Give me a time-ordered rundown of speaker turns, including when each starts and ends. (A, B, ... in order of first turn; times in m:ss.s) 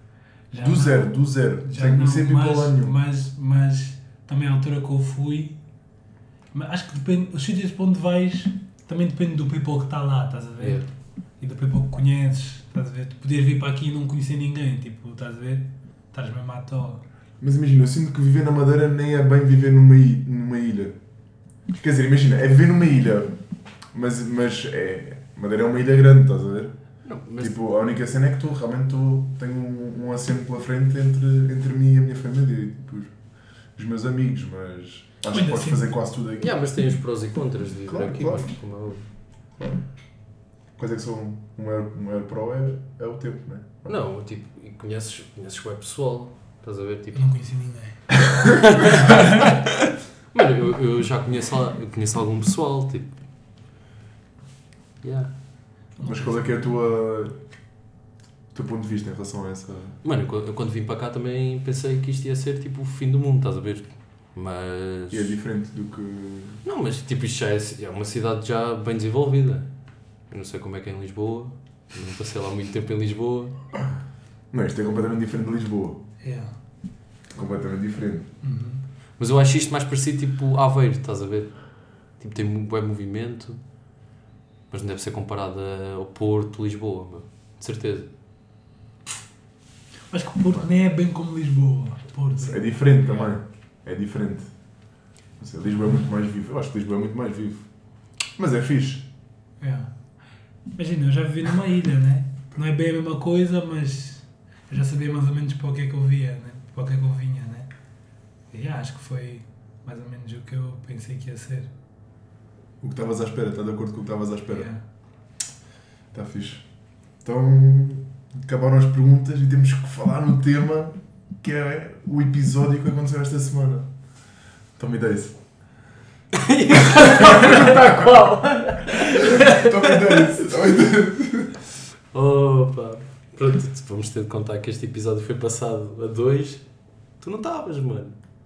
0:00.5-0:05.6 A
0:00.5-0:03.0 B
0:06.5-0:10.8 A
0:10.6-0:10.9 C
0:11.4-0:17.0 A
0:17.4-0:21.0 B
0:21.7-0:23.3 B
0:23.9-0:26.7 B
0:27.0-0:27.6 C
0:27.4-0:33.1 B
0:33.8-0:36.5 B
0:35.3-0:35.9 A
0:36.4-0:39.0 C
0:37.9-0:38.5 B
0:39.6-0:39.8 B
0:40.8-0:44.0 B
0:43.9-0:47.3 C
0:47.2-0:48.0 A
0:48.4-0:49.6 C
0:49.1-0:49.3 A
0:50.3-0:53.1 C
0:55.0-0:55.3 C
0:56.0-0:56.6 A
0:56.0-0:57.4 B
0:58.5-1:00.0 B
1:00.0-1:05.4 C
1:05.1-1:06.6 B
1:06.6-1:09.7 C
1:10.3-1:13.6 C
1:14.5-1:16.0 B
1:16.2-1:16.5 A
1:17.3-1:18.3 B
1:18.4-1:18.8 A
1:19.2-1:21.6 C
1:22.1-1:23.6 C
1:24.7-1:28.1 C
1:30.1-1:33.3 A
1:32.4-1:34.5 B
1:35.4-1:37.7 B
1:38.4-1:39.1 B
1:39.6-1:39.9 A
1:40.8-1:47.7 A
1:48.5-1:51.7 A
1:52.8-1:54.7 B
1:54.5-1:54.8 A
1:56.1-1:56.7 B
1:57.2-2:03.9 B
2:04.8-2:05.4 B
2:06.3-2:10.5 C
2:07.0-2:08.1 B
2:09.1-2:11.5 B
2:12.1-2:16.6 C
2:17.2-2:18.2 C